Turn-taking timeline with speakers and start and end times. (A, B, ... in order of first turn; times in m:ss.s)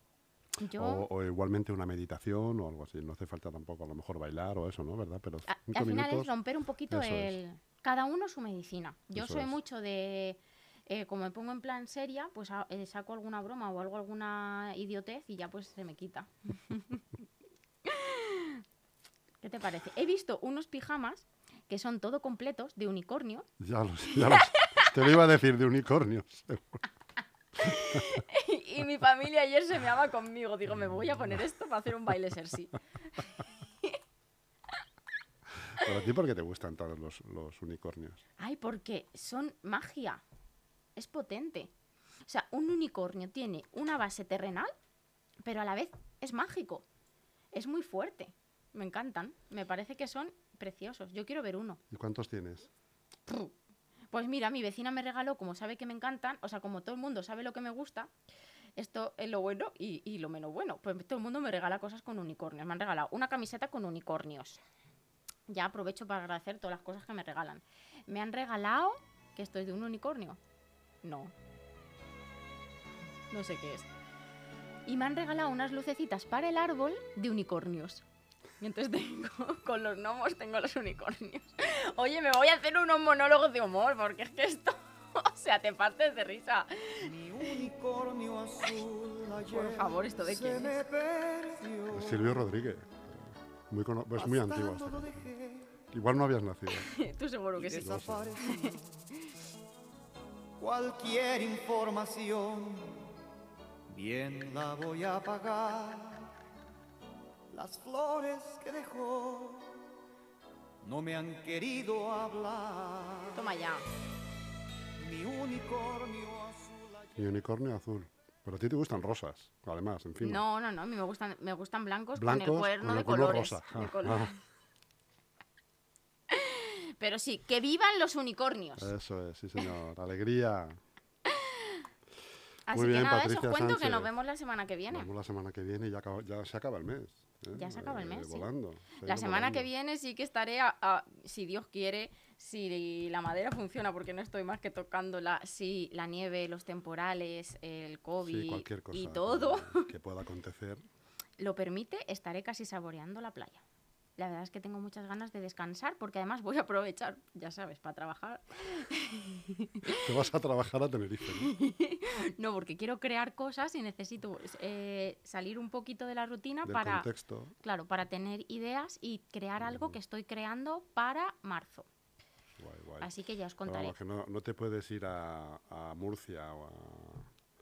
0:00.6-0:01.0 A
0:00.8-0:06.3 B
0:05.5-0:17.0 A
0:06.9-0:07.4 B
0:09.1-0:09.6 B
0:17.8-0:18.6 A
0:19.4-0:23.5 A
0:23.6-0:26.8 B
0:24.1-0:25.0 A
0:27.6-0:34.0 A
0:35.6-0:38.2 B
0:38.4-0:40.2 A
0:41.0-0:41.7 A
0:42.3-0:44.7 A
0:45.4-0:46.8 A
0:47.5-0:51.8 A
0:51.9-0:52.7 B
0:53.3-0:53.5 A
0:54.1-0:58.1 A
0:58.8-1:04.6 A
1:05.5-1:10.4 A
1:11.0-1:11.3 A
1:13.3-1:13.9 A
1:14.8-1:18.0 A
1:18.6-1:27.5 A
1:27.0-1:32.6 C
1:29.5-1:30.8 A
1:31.9-1:35.3 B
1:34.1-1:35.7 C
1:35.9-1:36.9 B
1:36.8-1:38.7 A
1:37.6-1:39.1 C
1:37.8-1:38.3 B
1:40.6-1:43.0 C
1:43.9-1:46.3 C
1:47.5-1:49.8 C
1:50.8-1:53.4 C
1:53.3-1:53.8 A
1:55.0-1:57.2 C
1:57.2-2:00.4 B
2:00.2-2:04.3 A
2:02.1-2:04.3 B
2:06.3-2:08.9 A
2:08.8-2:10.8 B
2:11.3-2:11.8 A
2:12.7-2:15.1 A
2:12.7-2:14.1 B
2:14.9-2:19.7 B
2:17.5-2:18.5 A
2:19.0-2:29.9 A
2:28.2-2:30.8 B
2:31.4-2:33.6 A
2:34.2-2:40.1 A
2:39.9-2:41.5 B
2:41.4-2:47.1 A
2:46.6-2:47.5 B
2:47.6-2:51.9 A
2:49.6-2:50.0 B
2:52.6-2:57.3 B
2:53.0-2:54.0 A